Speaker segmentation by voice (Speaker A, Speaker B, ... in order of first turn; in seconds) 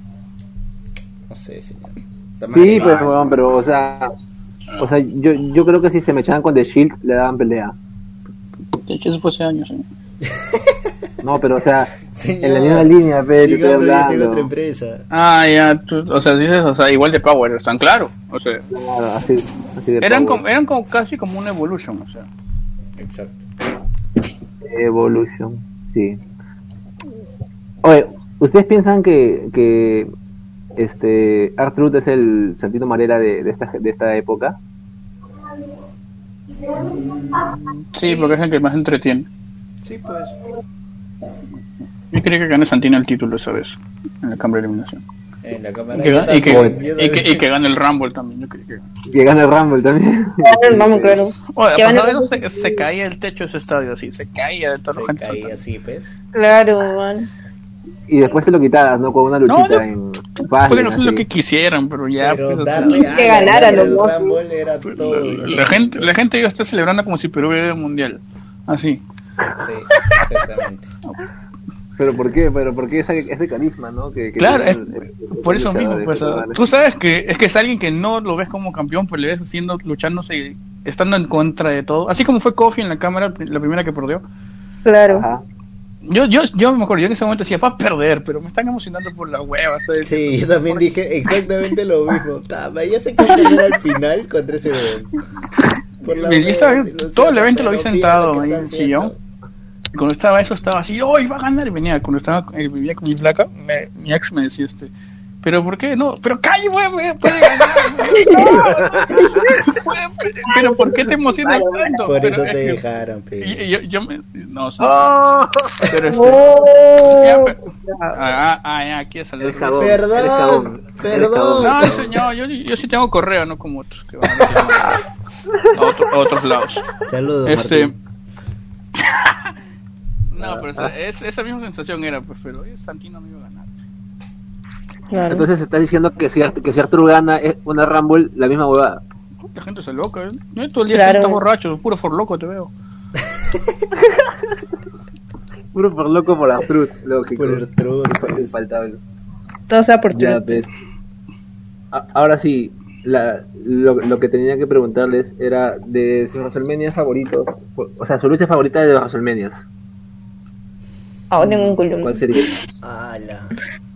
Speaker A: 1.3-3.6, 10.2-10.9, 12.0-15.0, 23.0-23.5, 36.7-38.3, 39.8-40.4, 45.4-47.5, 54.9-56.2, 62.2-66.1, 69.6-70.9, 90.0-95.2, 96.0-99.2, 112.0-113.7, 119.8-122.1, 127.1-128.0, 147.3-148.6, 162.8-163.5
Speaker B: 2.4-4.1, 4.8-7.8, 11.2-14.5, 18.7-20.4, 24.6-26.2, 27.8-30.1, 30.8-34.6, 46.5-46.8, 49.1-51.2, 58.1-61.3, 72.0-76.6, 85.1-85.4, 108.5-109.5, 114.8-115.9, 119.4-122.1, 130.4-130.9, 135.2-139.0, 145.7-149.0, 150.1-150.7, 151.9-159.6, 162.0-162.6
Speaker C: 8.8-9.8, 15.1-18.6, 20.0-22.3, 37.9-39.3, 42.1-45.0, 45.9-48.8, 51.5-55.6, 59.5-59.9, 60.7-63.8, 64.9-69.0, 74.4-84.2, 86.1-90.8, 96.1-99.1, 99.9-112.8, 113.4-115.1, 115.8-120.0, 121.6-125.0, 125.8-126.8, 127.5-127.9, 129.0-129.5, 130.3-133.7, 139.6-142.7, 161.4-161.8
Speaker D: 50.4-52.9, 56.3-57.3, 63.1-64.4, 84.8-85.3, 108.1-108.6, 110.5-111.0, 111.5-111.9, 116.1-117.5, 135.1-135.5, 140.9-141.4, 149.7-150.6, 161.3-162.2